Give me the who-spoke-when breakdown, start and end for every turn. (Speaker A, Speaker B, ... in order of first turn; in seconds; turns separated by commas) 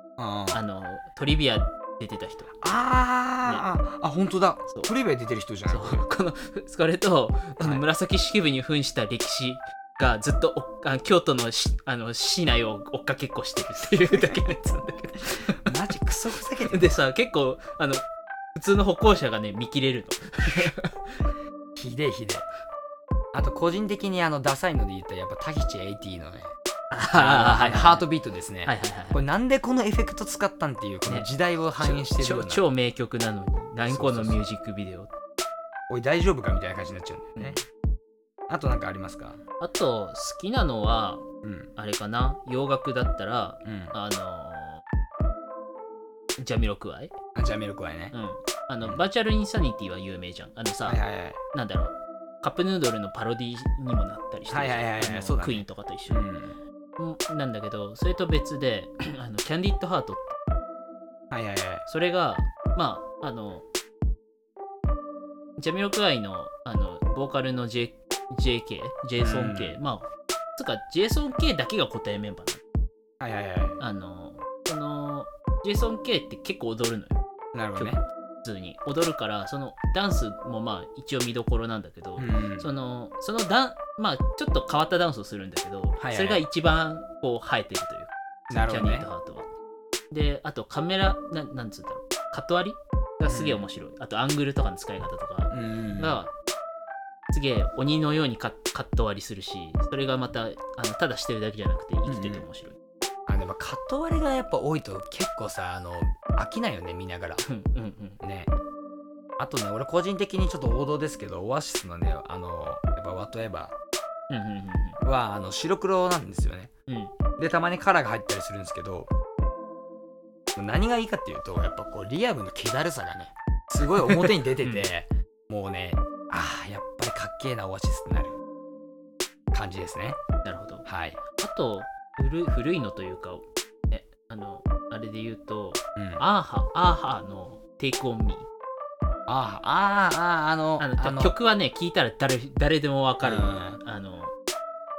Speaker A: 0.2-0.6, Speaker B: 0.5-2.5, Speaker A: 2.6-6.0, Speaker B: 5.7-15.7, Speaker A: 14.1-14.5, Speaker A: 15.5-16.9, Speaker B: 16.6-21.3, Speaker A: 21.7-22.5, Speaker A: 23.3-26.5, Speaker B: 26.9-28.1, Speaker A: 27.1-32.6, Speaker B: 28.6-29.2, Speaker B: 31.0-35.1, Speaker A: 33.9-34.4, Speaker A: 35.9-37.6, Speaker B: 37.3-37.6, Speaker A: 38.5-39.4, Speaker B: 39.6-41.2, Speaker A: 41.4-41.7, Speaker B: 41.8-44.8, Speaker A: 43.6-44.0, Speaker B: 46.4-47.1, Speaker A: 47.3-48.1, Speaker B: 48.1-51.0, Speaker A: 50.8-51.4, Speaker B: 51.5-56.3, Speaker A: 54.5-56.6, Speaker B: 57.0-60.4, Speaker A: 61.3-61.9, Speaker B: 61.9-63.6, Speaker B: 65.6-72.6, Speaker A: 69.2-69.8, Speaker A: 73.2-73.8, Speaker B: 73.8-77.2, Speaker A: 77.5-78.0, Speaker B: 77.8-88.1, Speaker A: 82.2-82.7, Speaker A: 86.0-86.4, Speaker A: 88.5-89.1, Speaker B: 88.6-89.5, Speaker B: 90.1-96.3, Speaker A: 93.3-93.7, Speaker A: 95.5-96.2, Speaker B: 97.3-102.8, Speaker A: 102.1-102.5, Speaker A: 103.3-107.5, Speaker B: 107.4-108.2, Speaker A: 108.2-108.5, Speaker A: 109.4-113.8, Speaker B: 114.3-115.0, Speaker A: 115.0-116.7, Speaker B: 116.9-117.1, Speaker A: 117.4-119.1, Speaker A: 120.5-128.4, Speaker B: 124.0-124.9, Speaker A: 129.5-130.2, Speaker B: 130.4-138.5, Speaker A: 130.8-131.2, Speaker A: 135.9-136.2, Speaker A: 139.3-141.3, Speaker B: 140.8-144.3, Speaker A: 143.2-143.8